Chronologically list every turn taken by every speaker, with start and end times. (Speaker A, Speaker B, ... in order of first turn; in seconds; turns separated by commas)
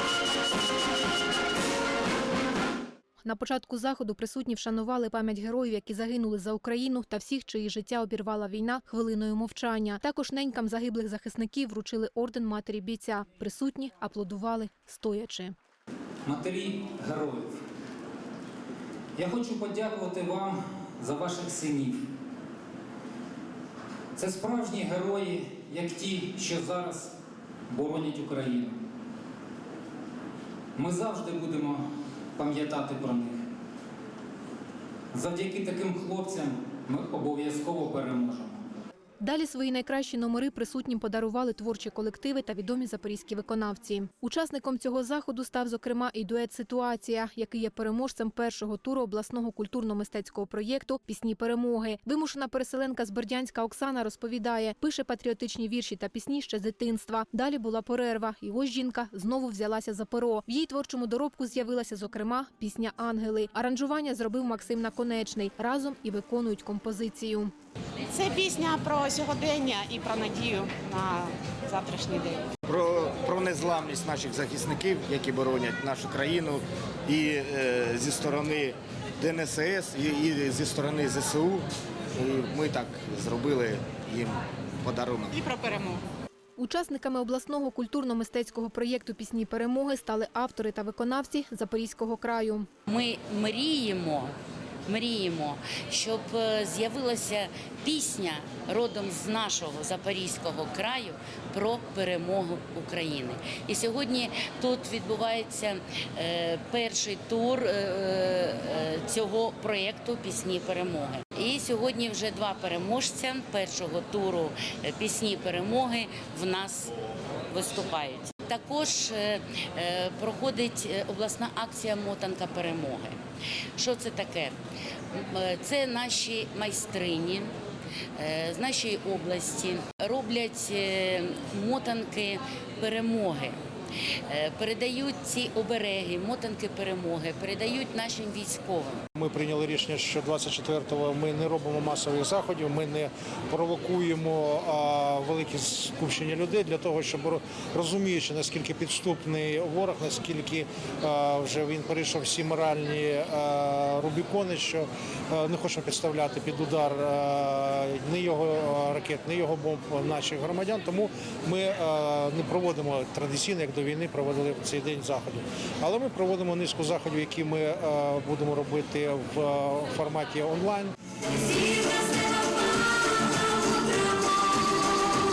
Speaker A: 3.2-15.5, Speaker B: 16.2-17.6, Speaker B: 19.2-22.0, Speaker B: 24.2-27.1, Speaker B: 27.7-28.7, Speaker B: 30.8-31.8, Speaker B: 32.4-33.4, Speaker B: 35.1-38.6, Speaker A: 39.2-67.5, Speaker C: 68.1-72.5, Speaker D: 72.7-85.4, Speaker C: 85.4-86.0, Speaker A: 86.6-92.7, Speaker E: 92.9-94.3, Speaker E: 94.8-116.9, Speaker E: 117.5-123.2, Speaker E: 123.8-124.5, Speaker E: 125.1-127.5, Speaker E: 128.2-133.6, Speaker E: 134.3-139.0, Speaker F: 139.2-170.9